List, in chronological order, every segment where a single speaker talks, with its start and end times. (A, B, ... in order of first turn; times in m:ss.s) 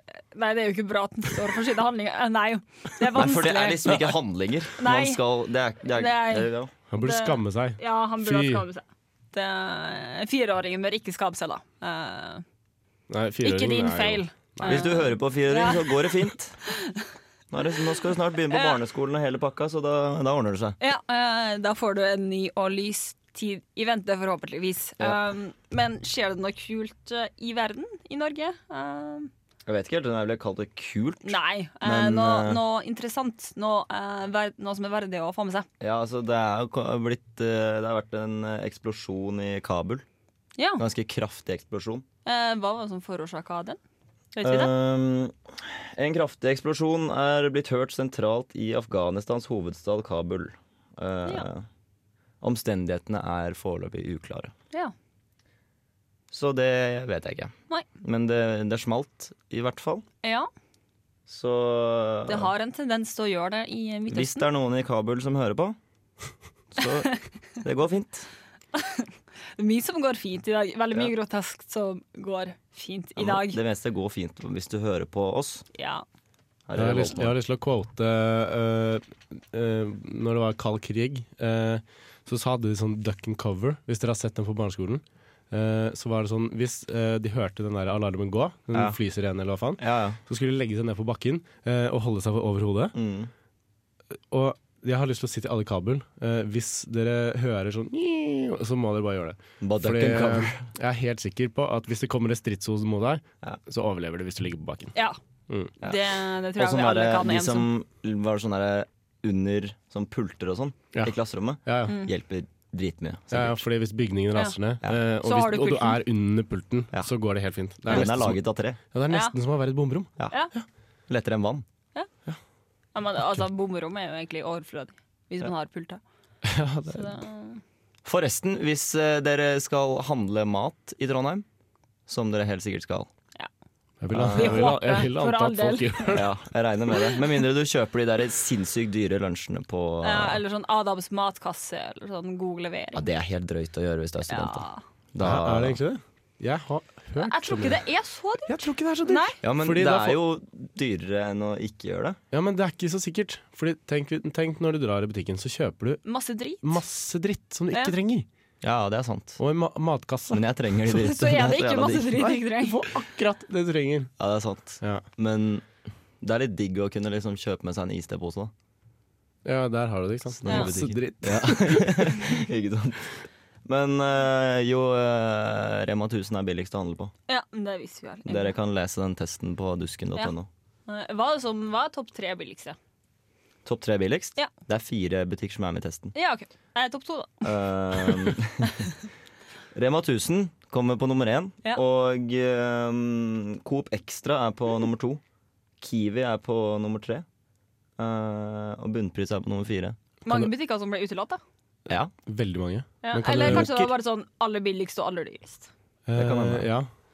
0:00.3-0:04.1 A
0:03.1-0:06.7 B
0:04.8-0:05.2 A
0:05.8-0:06.5 A
0:06.9-0:08.6 C
0:07.0-0:12.4 A
0:13.1-0:14.9 C
0:13.4-0:17.0 A
0:14.6-0:16.6 B
0:17.5-0:20.8 B
0:18.5-0:18.8 A
0:20.8-0:29.3 A
0:29.7-0:32.6 B
0:31.2-0:35.7 A
0:35.8-0:40.0 B
0:40.6-0:40.8 A
0:40.8-0:42.0 B
0:42.2-0:43.8 A
0:44.4-0:44.7 A
0:44.4-0:51.7 B
0:52.4-0:54.5 B
0:56.3-1:00.0 B
1:00.2-1:00.5 A
1:01.3-1:02.5 B
1:02.3-1:04.5 A
1:04.1-1:05.8 B
1:06.7-1:08.3 B
1:08.8-1:13.6 A
1:13.2-1:15.7 B
1:15.8-1:16.0 A
1:16.7-1:17.4 B
1:16.8-1:32.9 C
1:29.8-1:30.2 B
1:33.0-1:33.3 B
1:34.3-1:45.0 C
1:39.6-1:40.7 B
1:45.8-1:47.7 A
1:46.6-1:53.6 B
1:51.6-1:52.0 C
1:53.3-1:58.4 C
1:55.2-1:56.0 A
1:57.9-1:58.8 B
1:58.9-2:00.6 C
1:59.1-1:59.4 A
2:01.1-2:01.6 B
2:03.0-2:06.0 A
2:06.4-2:07.2 C
2:06.9-2:07.6 A
2:08.0-2:11.4 B
2:12.1-2:13.1 B
2:14.0-2:16.3 C
2:14.1-2:14.8 B
2:14.3-2:16.2 A
2:16.1-2:20.4 B
2:20.0-2:23.1 A
2:22.9-2:25.8 B
2:24.3-2:24.8 A
2:25.2-2:27.8 C
2:27.2-2:29.4 A
2:28.5-2:30.2 C
2:29.4-2:32.2 B
2:32.3-2:36.0 C
2:36.0-2:36.8 A
2:36.6-2:38.3 C
2:38.6-2:39.4 B
2:39.4-2:40.4 C
2:40.3-2:42.4 B
2:40.9-2:42.9 A
2:42.5-2:44.1 C
2:44.2-2:45.6 B
2:46.2-2:48.5 B
2:49.4-2:52.3 C
2:50.4-2:57.1 B
2:50.5-2:50.7 A
2:57.3-2:58.6 A
2:58.3-3:00.5 B
3:00.9-3:02.8 A
3:03.6-3:06.1 B
3:06.1-3:08.4 A
3:07.4-3:08.9 B
3:09.7-3:15.2 B
3:15.8-3:17.2 B
3:18.0-3:20.0 B
3:20.3-3:21.4 A
3:22.3-3:23.9 C
3:23.0-3:25.7 A
3:23.4-3:23.7 B
3:26.1-3:26.9 C
3:26.1-3:26.7 B